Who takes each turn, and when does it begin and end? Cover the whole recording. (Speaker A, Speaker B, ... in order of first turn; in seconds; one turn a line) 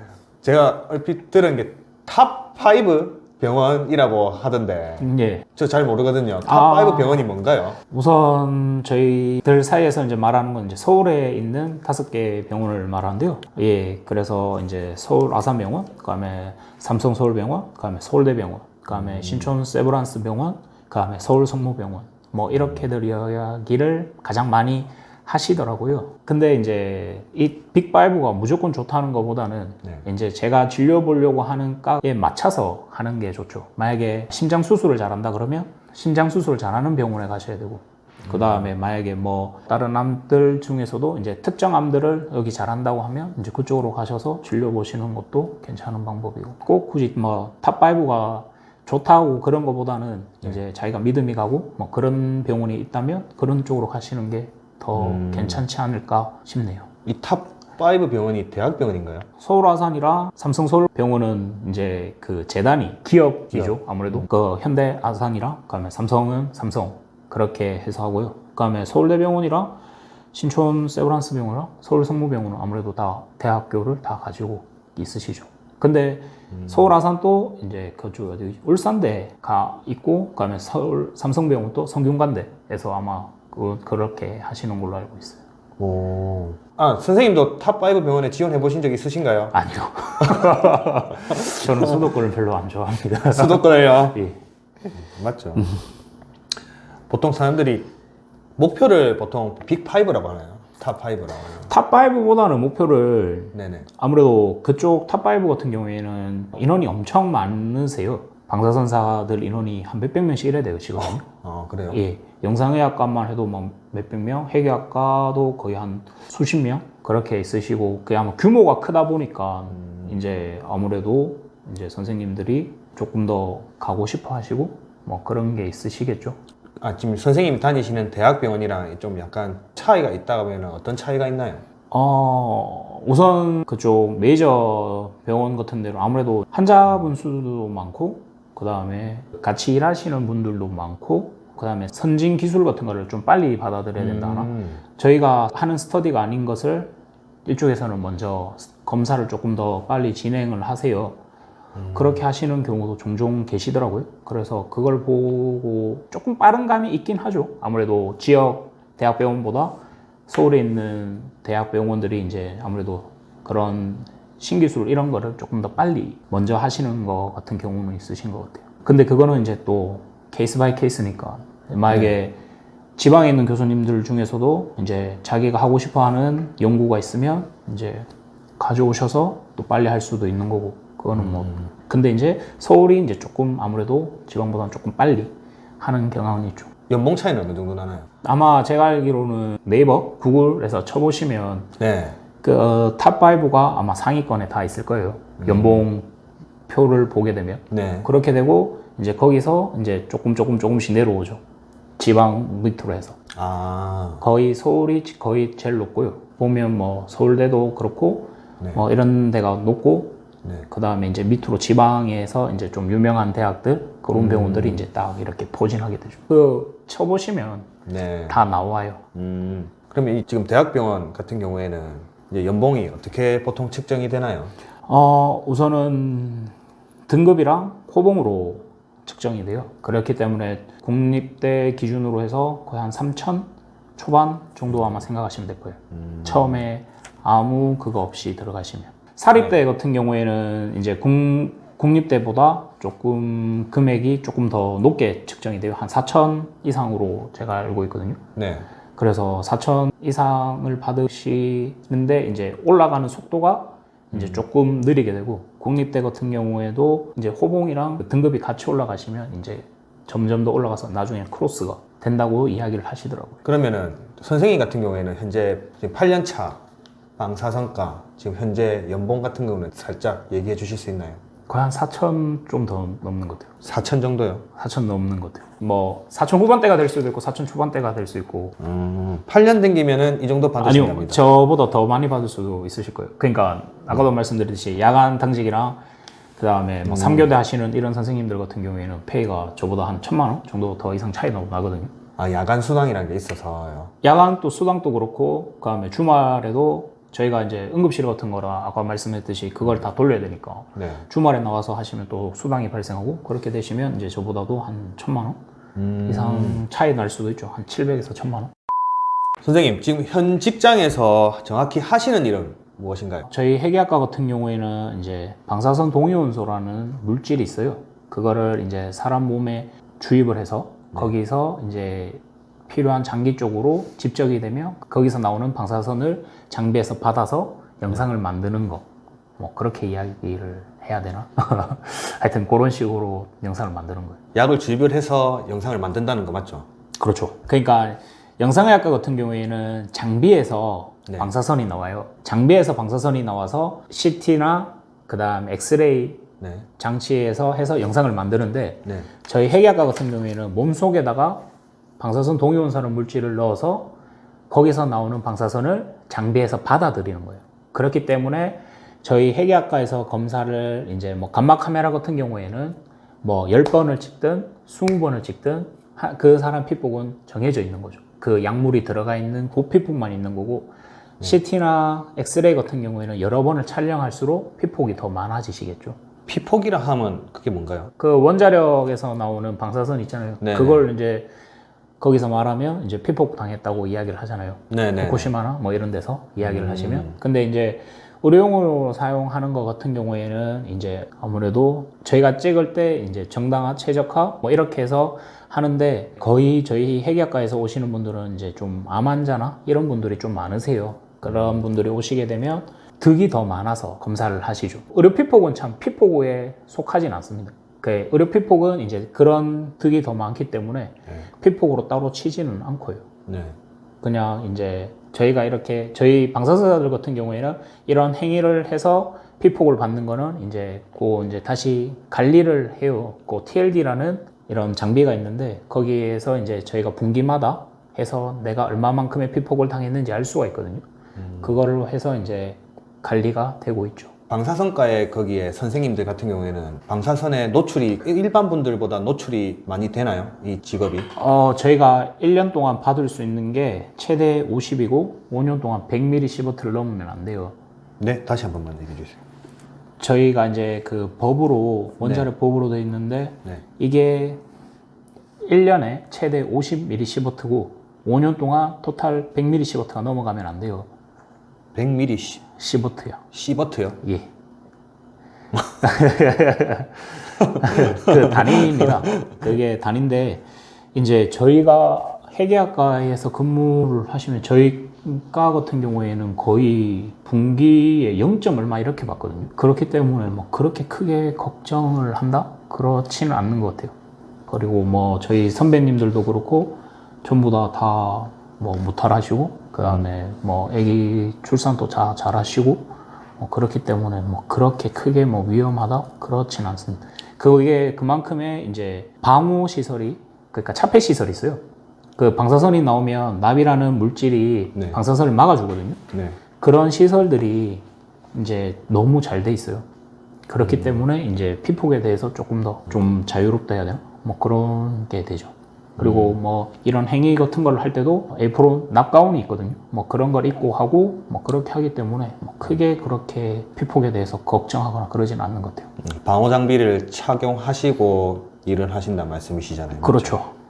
Speaker A: 0.4-7.8
Speaker B: 5.0-5.5
Speaker B: 6.4-7.3
Speaker B: 7.9-56.9
Speaker A: 18.9-19.5
Speaker A: 22.5-22.8
Speaker A: 38.3-38.7
Speaker A: 55.0-55.6
Speaker A: 57.0-59.3
Speaker B: 59.4-69.8
Speaker B: 70.3-85.4
Speaker A: 76.5-76.9
Speaker A: 85.8-89.6
Speaker B: 89.5-94.4
Speaker A: 90.2-90.6
Speaker A: 93.3-94.2
Speaker A: 94.9-95.7
Speaker A: 97.1-97.9
Speaker A: 98.6-101.7
Speaker B: 101.6-111.2
Speaker A: 103.5-103.9
Speaker A: 111.0-112.0
Speaker B: 111.9-126.4
Speaker A: 119.8-120.1
Speaker A: 126.8-131.6
Speaker B: 131.9-146.9
Speaker A: 144.0-144.8
Speaker B: 147.4-151.2
Speaker A: 151.7-152.2
Speaker B: 151.9-172.4
Speaker B: 172.9-186.7
Speaker A: 181.2-181.7
Speaker A: 186.9-188.1
Speaker B: 188.2-191.7
Speaker A: 191.8-192.2
Speaker B: 192.4-196.1
Speaker A: 195.4-195.8
Speaker B: 196.7-201.4
Speaker A: 197.7-198.1
Speaker B: 202.0-203.2
Speaker A: 203.3-204.2
Speaker B: 204.2-217.7
Speaker A: 214.1-214.8
Speaker A: 217.9-218.4
Speaker B: 218.3-219.0
Speaker A: 219.1-224.5
Speaker B: 224.9-226.5
Speaker B: 227.1-248.2
Speaker A: 235.9-236.6
Speaker A: 248.3-248.7
Speaker B: 248.9-263.4
Speaker A: 254.1-254.4
Speaker A: 263.4-266.6
Speaker A: 267.2-271.2
Speaker B: 271.5-273.5
Speaker A: 273.6-274.4
Speaker B: 274.6-278.6
Speaker A: 278.6-281.2
Speaker B: 280.6-285.8
Speaker B: 286.4-291.9
Speaker A: 286.9-287.3
Speaker A: 292.2-293.9
Speaker B: 294.0-305.4
Speaker A: 300.8-301.0
Speaker A: 305.8-306.6
Speaker B: 306.1-308.5
Speaker A: 309.4-313.3
Speaker B: 313.3-328.9
Speaker B: 329.4-334.2
Speaker A: 334.3-336.7
Speaker B: 337.0-346.2
Speaker A: 346.4-346.7
Speaker B: 346.8-351.5
Speaker B: 352.0-353.9
Speaker B: 354.5-376.0
Speaker A: 376.3-377.9
Speaker B: 378.0-381.3
Speaker A: 380.4-380.9
Speaker B: 382.0-413.1
Speaker A: 384.7-385.3
Speaker A: 386.4-387.2
Speaker A: 401.2-401.6
Speaker A: 413.3-413.5
Speaker B: 414.0-430.8
Speaker A: 431.2-431.5
Speaker B: 431.4-434.1
Speaker A: 434.3-441.1
Speaker B: 441.1-447.6
Speaker A: 448.0-449.2
Speaker B: 450.0-454.4
Speaker A: 452.0-452.3
Speaker B: 455.4-460.9
Speaker A: 461.7-462.4
Speaker B: 462.6-463.2
Speaker A: 463.3-464.0
Speaker B: 465.8-483.9
Speaker A: 467.4-468.9
Speaker B: 484.5-501.6
Speaker B: 502.2-506.0
Speaker A: 506.1-506.4
Speaker B: 506.6-509.8
Speaker B: 510.5-525.9
Speaker A: 510.6-511.0
Speaker A: 516.0-516.4
Speaker A: 526.0-530.4
Speaker B: 530.0-530.5